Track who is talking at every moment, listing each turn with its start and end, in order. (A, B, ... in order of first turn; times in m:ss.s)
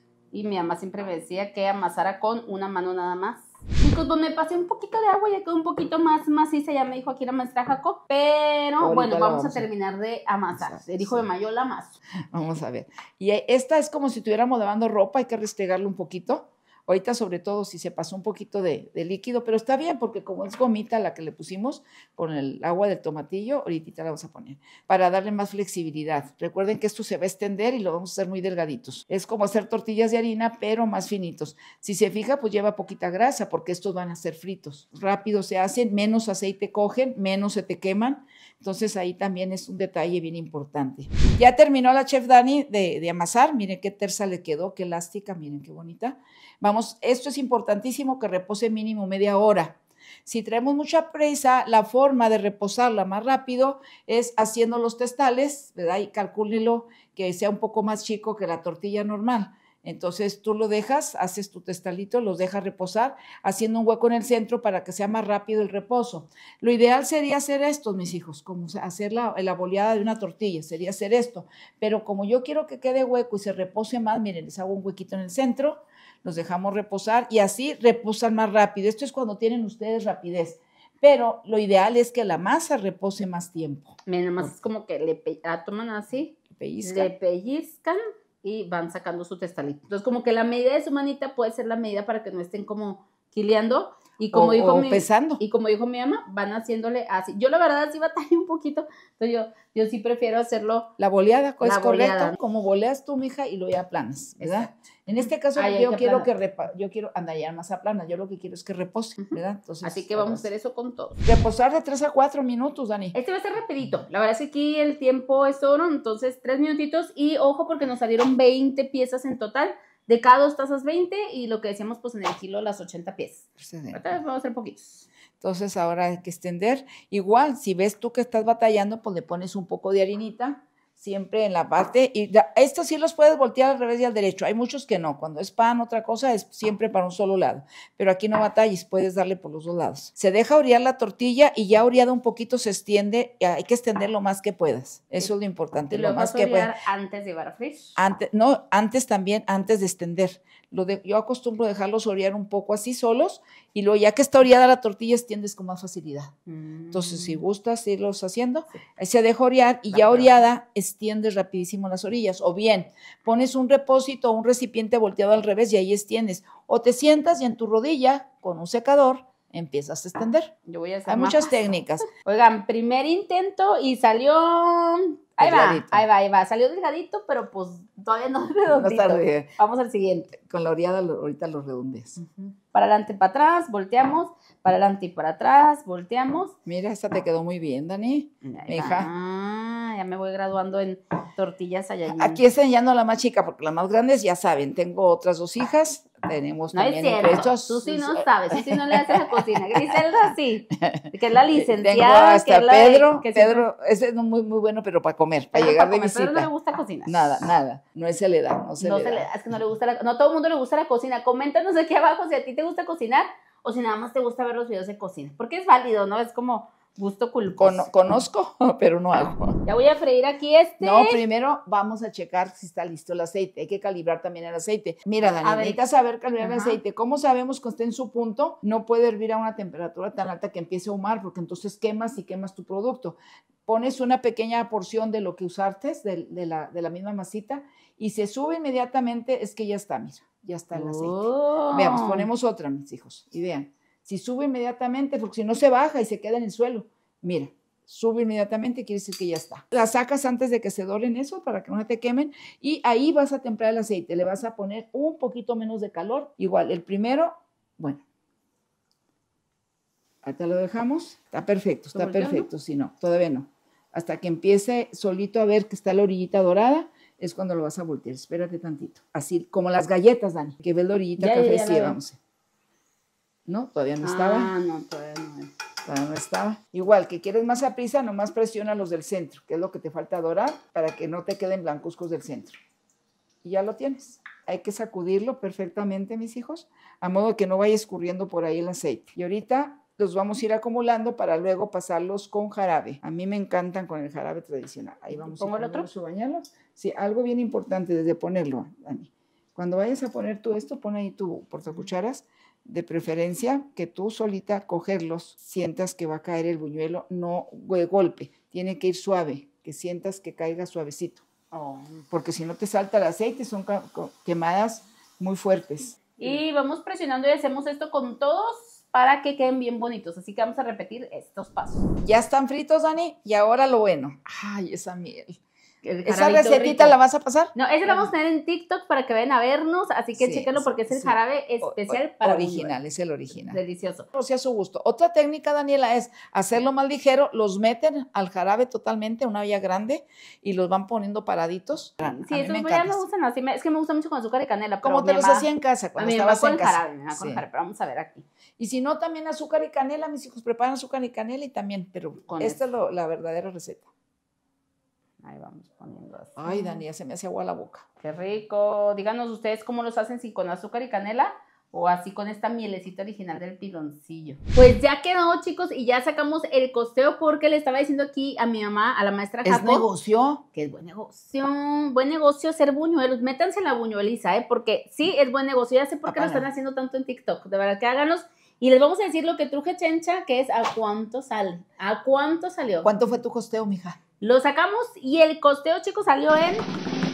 0:00.3-0:11.9 A
0:08.8-0:09.7 B
0:10.5-0:11.3 B
0:12.3-1:24.0 B
1:24.1-1:40.9 A
1:26.6-1:27.1 B
1:34.3-1:35.4 B
1:41.0-1:50.5 B
1:41.6-1:42.4 A
1:44.4-1:44.7 A
1:45.5-1:46.3 A
1:49.2-1:51.2 A
1:51.2-1:53.2 B
1:53.1-2:05.0 A
2:03.6-2:04.1 B
2:05.4-2:26.7 B
2:25.9-2:27.9 A
2:28.0-2:36.3 B
2:36.5-2:37.4 A
2:36.9-2:50.5 B
2:39.9-2:40.3 A
2:50.7-2:51.6 A
2:51.1-2:52.1 B
2:52.1-3:00.4 A
2:55.4-2:56.1 B
2:58.7-2:59.5 B
3:00.4-3:02.2 B
3:02.2-3:06.6 A
3:06.7-3:09.1 B
3:08.4-3:12.4 A
3:12.1-3:20.3 B
3:16.7-3:23.6 A
3:20.8-3:26.5 B
3:25.5-3:27.5 A
3:27.1-3:29.3 B
3:28.8-3:37.9 A
3:37.6-3:39.6 B
3:39.7-3:41.2 A
3:40.8-4:18.0 B
3:45.3-3:45.8 A
3:46.4-3:46.8 A
4:00.7-4:02.3 A
4:20.2-4:32.2 B
4:21.9-4:22.5 A
4:31.2-4:32.0 A
4:33.5-4:34.5 B
4:34.0-4:35.5 A
4:35.9-4:42.6 B
4:43.4-5:11.2 B
4:55.1-4:55.9 A
5:11.5-5:12.0 A
5:12.1-5:16.4 B
5:16.2-5:21.9 A
5:22.0-5:25.4 B
5:25.8-5:27.0 A
5:26.0-5:28.1 B
5:27.6-5:32.7 A
5:30.2-5:33.6 B
5:33.3-5:34.1 A
5:34.1-5:43.0 B
5:42.0-5:48.2 A
5:44.8-5:47.4 B
5:48.6-5:53.9 B
5:52.3-5:52.6 A
5:55.2-5:56.8 A
5:56.4-5:57.8 B
5:58.0-6:09.9 A
6:09.4-6:10.4 B
6:10.6-6:22.9 A
6:16.1-6:16.5 B
6:22.8-6:24.0 B
6:24.2-6:26.7 A